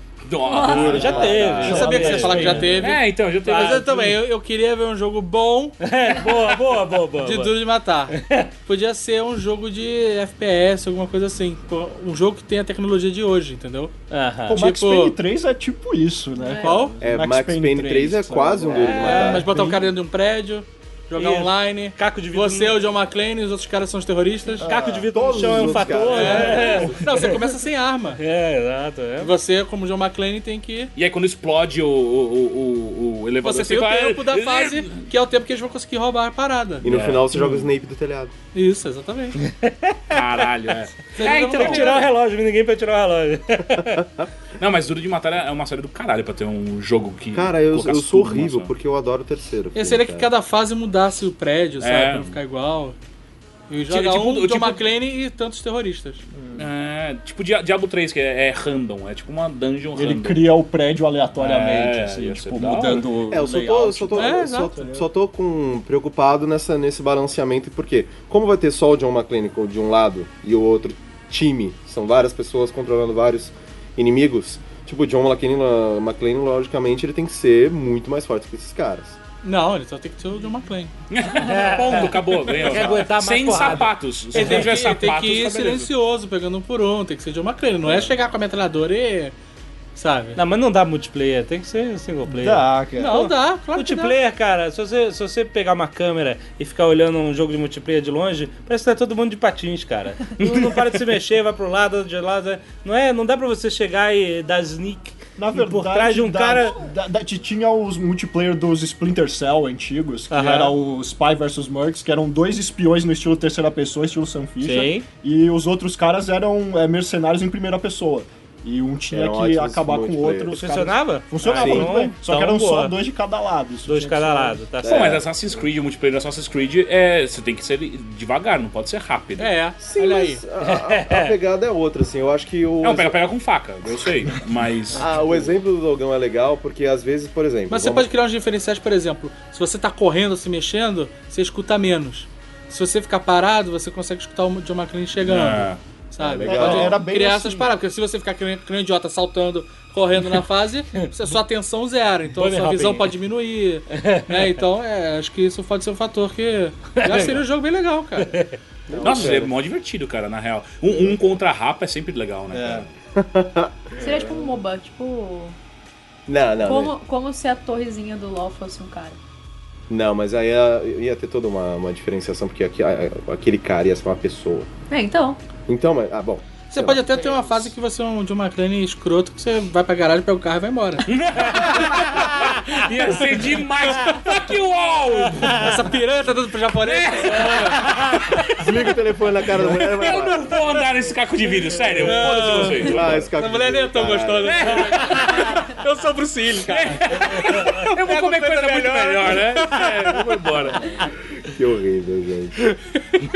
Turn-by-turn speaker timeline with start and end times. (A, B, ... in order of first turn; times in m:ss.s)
0:00.2-0:01.6 A
0:00.6-0:02.8 B
0:00.6-0:02.0 C
0:01.1-0:02.9 D
0:01.6-0:05.8 E
0:02.8-0:04.2 A
0:03.5-0:04.1 B
0:05.8-0:07.6 B
0:07.2-0:13.9 E
0:08.1-0:08.5 B
0:14.1-0:14.6 B
0:14.5-0:19.9 D
0:14.5-0:15.2 E
0:16.4-0:16.9 F
0:16.6-0:17.0 E
0:17.0-0:19.5 C
0:18.9-0:19.7 B
0:18.9-0:24.7 E
0:21.2-0:22.8 B
0:24.6-0:27.4 B
0:24.6-0:26.8 D
0:25.1-0:27.0 C
0:26.1-0:28.2 E
0:28.2-0:29.3 B
0:29.2-0:30.9 E
0:31.0-0:35.0 A
0:33.4-0:36.9 E
0:36.8-0:38.3 C
0:36.8-0:37.6 A
0:38.5-0:39.4 E
0:39.4-0:40.3 B
0:40.1-0:42.0 A
0:41.2-0:42.1 E
0:41.2-0:44.1 B
0:44.6-0:48.7 A
0:47.3-0:50.3 C
0:49.8-0:53.0 E
0:51.8-0:52.4 A
0:53.7-0:56.2 E
0:53.9-0:54.9 A
0:56.3-0:56.7 D
0:56.6-1:00.5 A
1:00.0-1:05.1 D
1:01.4-1:03.1 A
1:03.3-1:19.2 C
1:04.1-1:04.7 E
1:19.4-1:20.9 E
1:21.1-1:25.9 A
1:21.4-1:24.5 B
1:24.3-1:29.4 E
1:30.0-1:30.4 E
1:30.4-1:32.7 B
1:32.3-1:33.3 D
1:33.0-1:34.2 E
1:33.7-1:46.8 B
1:40.4-1:41.0 A
1:45.4-2:04.6 D
1:50.3-1:50.8 B
1:54.6-1:55.1 B
1:59.1-2:00.6 C
2:00.5-2:03.0 B
2:01.4-2:02.0 C
2:03.9-2:05.2 B
2:04.8-2:05.2 C
2:04.8-2:09.5 A
2:09.4-2:10.4 E
2:09.8-2:13.2 C
2:10.6-2:11.4 B
2:12.8-2:15.1 A
2:15.0-2:18.1 C
2:17.7-2:38.4 E
2:25.2-2:25.8 A
2:26.2-2:27.0 C
2:26.4-2:27.8 D
2:31.0-2:31.4 B
2:32.4-2:33.2 B
2:33.9-2:34.6 B
2:36.9-2:37.4 B
2:38.2-2:38.5 B
2:38.9-2:39.5 C
2:38.9-2:39.5 D
2:39.0-2:42.9 A
2:42.5-2:42.9 D
2:43.2-2:44.0 C
2:44.0-2:44.6 D
2:44.0-2:45.6 F
2:46.3-2:46.9 C
2:46.6-2:49.2 F
2:49.9-2:54.7 C
2:54.9-2:55.4 F
2:55.7-2:57.7 C
2:56.7-3:01.1 E
3:01.1-3:05.7 A
3:03.1-3:04.2 E
3:05.4-3:07.8 E
3:06.8-3:08.7 A
3:08.6-3:10.4 C
3:09.6-3:13.3 A
3:12.0-3:20.2 E
3:12.8-3:14.8 C
3:14.4-3:15.7 A
3:16.6-3:21.1 A
3:21.4-3:22.6 C